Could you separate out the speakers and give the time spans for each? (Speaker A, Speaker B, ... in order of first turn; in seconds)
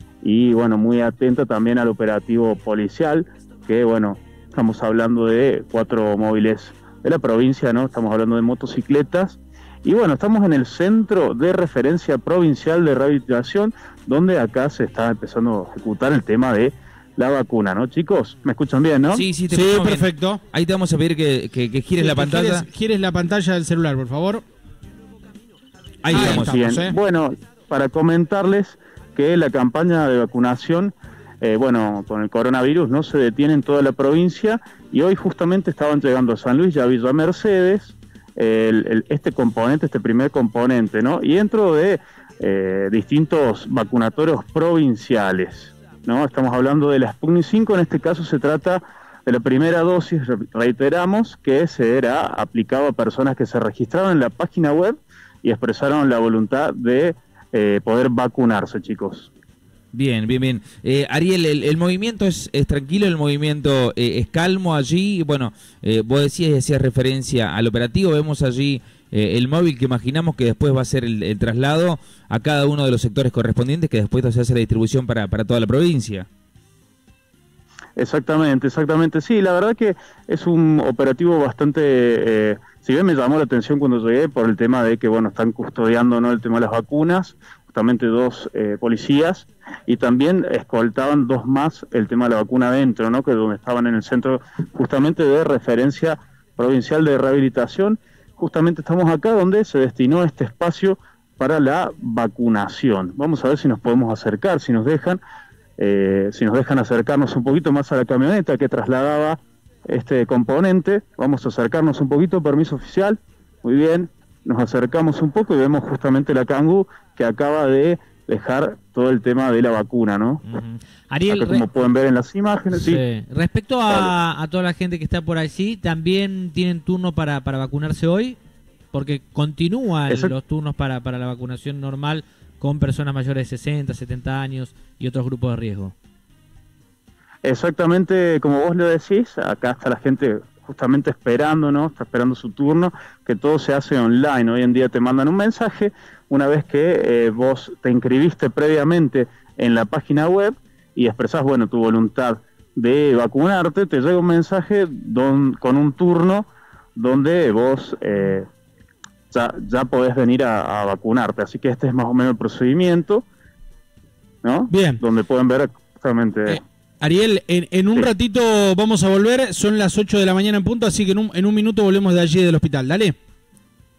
Speaker A: 0.2-19.2, 26.1-59.3, 78.0-105.2, 105.8-120.4, 121.3-123.0, 123.9-124.1, 130.1-130.3, 137.4-158.5, 159.3-163.2, 164.4-166.6
Speaker B: 19.1-22.7, 26.0-26.6, 59.9-76.3
Speaker C: 19.5-20.4, 22.0-24.4, 26.1-26.9, 164.7-165.0, 166.5-173.2
Speaker D: 120.5-121.7, 122.7-128.4, 128.9-135.9